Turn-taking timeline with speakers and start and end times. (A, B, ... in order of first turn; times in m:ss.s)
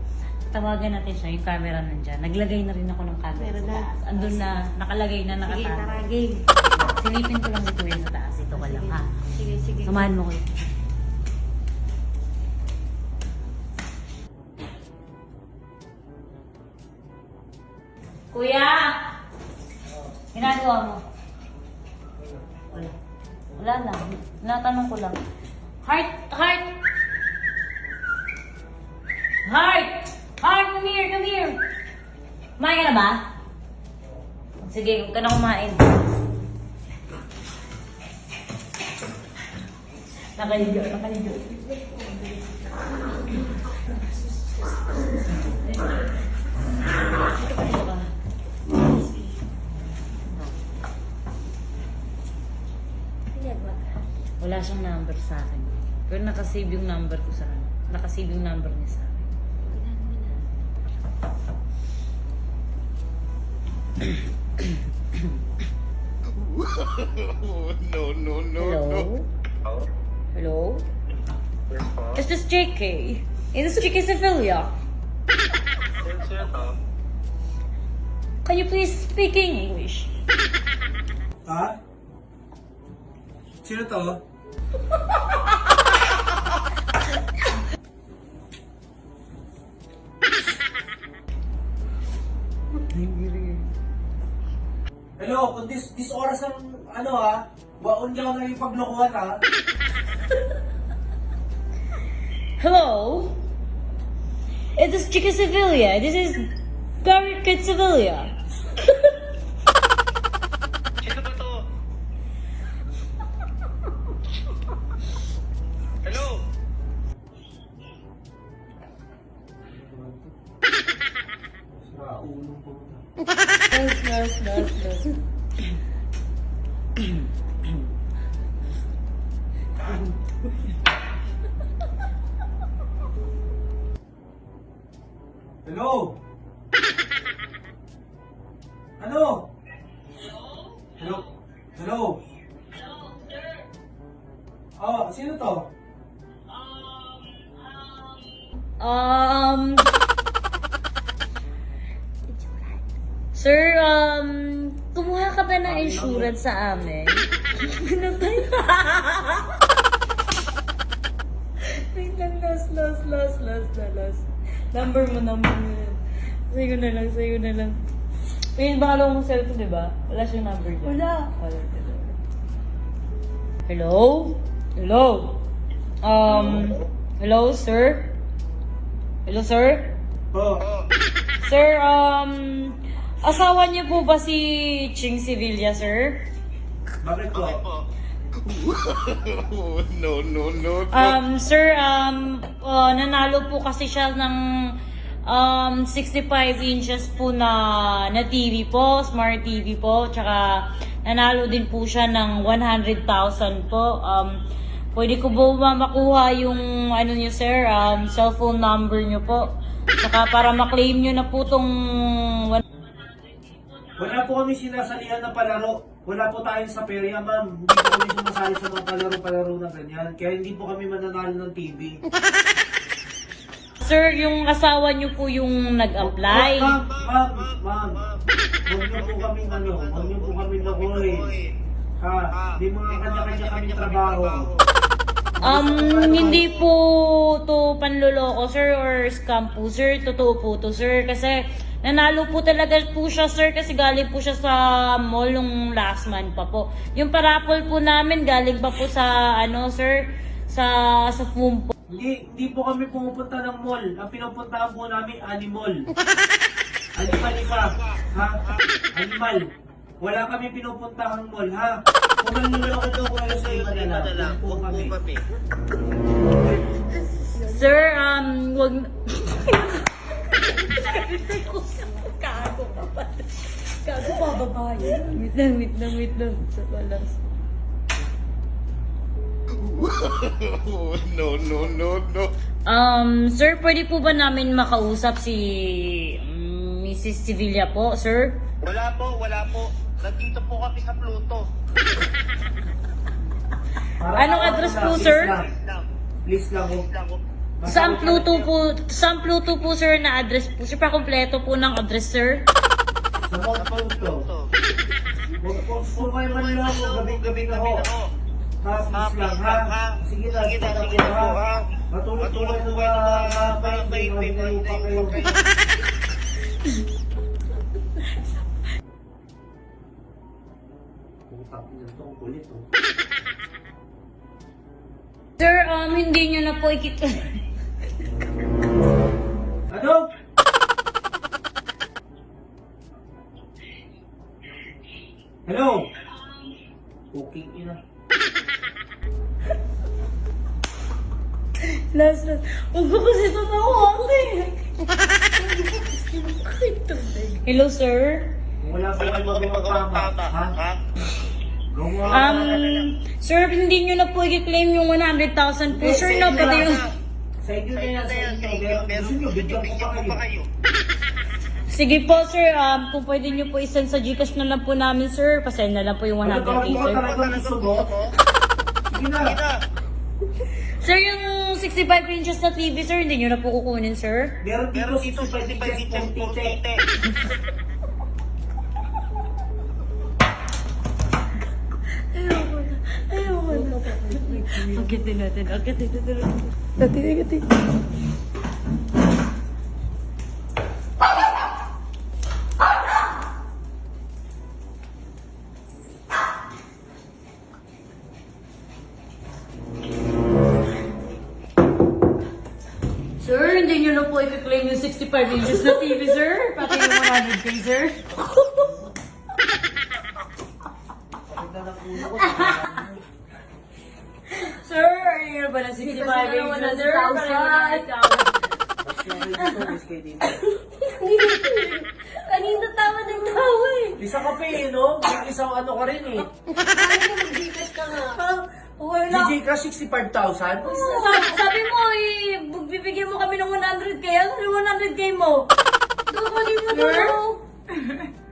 0:00.4-0:06.1 A
0:03.4-0:04.5 B
0:05.4-0:06.4 B
0:06.8-0:09.1 A
0:08.6-0:10.1 B
0:09.8-0:10.4 A
0:18.3-0:19.0 A
0:20.3-0:21.0 A
0:23.6-0:25.2 A
0:25.8-0:26.6 A
0:29.4-0:31.6 A
0:32.6-0:33.2 A
0:34.6-0:36.0 A
0:40.4-0:41.6 A
0:47.3-0:48.1 A
0:53.3-0:54.0 B
0:54.4-0:59.2 A
0:59.7-1:00.4 B
1:06.3-1:09.1 C
1:08.6-1:09.3 A
1:10.3-1:10.8 A
1:11.7-1:12.1 D
1:12.1-1:14.7 A
1:16.0-1:16.8 D
1:18.4-1:20.1 A
1:21.4-1:21.8 E
1:23.6-1:24.2 E
1:32.8-1:33.7 A
1:35.2-1:39.4 E
1:42.6-1:43.4 A
1:44.8-1:46.4 A
1:47.0-1:48.3 A
1:51.0-1:51.6 D
1:56.0-1:56.4 D
1:59.6-2:00.3 E
2:01.7-2:03.0 E
2:03.7-2:05.0 A
2:15.6-2:16.2 E
2:19.0-2:19.5 E
2:20.2-2:21.2 A
2:21.0-2:21.2 E
2:21.7-2:22.2 E
2:22.7-2:23.6 A
2:24.8-2:25.7 E
2:26.5-2:28.2 A
2:28.8-2:29.9 A
2:32.3-2:32.8 B
2:33.3-2:39.6 A
2:35.6-2:36.3 E
2:41.7-2:47.8 A
2:48.5-2:52.1 A
2:51.0-2:51.3 B
2:53.6-2:55.4 A
2:56.0-2:58.1 A
2:56.3-2:56.7 E
2:59.2-2:59.9 A
3:00.3-3:00.6 E
3:00.6-3:00.9 D
3:01.4-3:06.2 A
3:07.0-3:07.6 E
3:07.3-3:07.8 D
3:08.4-3:11.2 C
3:10.9-3:14.4 A
3:15.2-3:24.4 A
3:24.9-3:32.6 A
3:34.0-3:42.0 E
3:43.8-3:46.8 A
3:46.0-3:48.0 E
3:46.9-3:48.2 D
3:48.7-3:51.3 E
3:48.9-3:51.5 D
3:52.0-3:54.5 E
3:52.3-3:54.7 D
3:55.3-3:56.5 E
3:55.4-4:11.7 A
4:11.9-4:15.9 E
4:17.0-4:18.4 E
4:18.9-4:19.5 E
4:20.0-4:24.9 E
4:22.7-4:25.2 D
4:27.2-4:37.2 A
4:34.2-4:35.0 B
4:39.5-4:42.3 C
4:42.6-4:48.4 A
4:48.6-4:51.5 D
4:54.0-4:55.5 E
4:54.1-4:55.4 A
4:55.4-4:55.8 D
4:56.2-4:56.9 E
4:56.9-4:57.2 D
4:57.6-4:58.5 E
4:57.6-5:02.5 A
5:03.3-5:04.2 E
5:03.5-5:04.5 D
5:05.4-5:07.8 E
5:06.1-5:08.1 D
5:08.6-5:11.4 E
5:08.9-5:11.7 D
5:11.9-5:15.4 E
5:12.2-5:15.4 D
5:21.3-5:22.7 E
5:25.4-5:27.4 A
5:29.7-5:30.1 E
5:35.4-5:35.9 E
5:37.1-5:37.8 E
5:41.9-5:44.6 A
5:45.3-5:47.3 B
5:47.4-5:48.4 A
5:48.6-5:50.5 E
5:49.0-5:50.8 D
5:51.7-5:52.8 E
5:52.0-5:52.8 D
5:52.1-5:56.8 A
5:55.7-5:56.8 E
5:56.2-5:56.8 D
5:57.4-6:00.2 E
5:57.7-6:00.5 D
6:01.7-6:07.1 A
6:06.2-6:07.9 E
6:06.6-6:08.1 D
6:08.9-6:09.4 E
6:09.2-6:09.6 D
6:10.8-6:14.4 A
6:14.4-6:16.6 E
6:14.7-6:16.8 D
6:22.1-6:27.4 A
6:23.5-6:24.8 B
6:43.2-6:48.1 A
6:51.3-6:53.0 E
6:52.2-6:52.7 A
6:54.3-6:58.5 A
6:55.8-6:57.9 B
6:58.8-7:00.4 E
7:00.4-7:04.0 B
7:04.0-7:06.3 E
7:06.5-7:09.3 B
7:09.1-7:10.8 E
7:10.6-7:11.4 B
7:10.6-7:15.5 A
7:16.1-7:17.4 B
7:16.7-7:17.2 A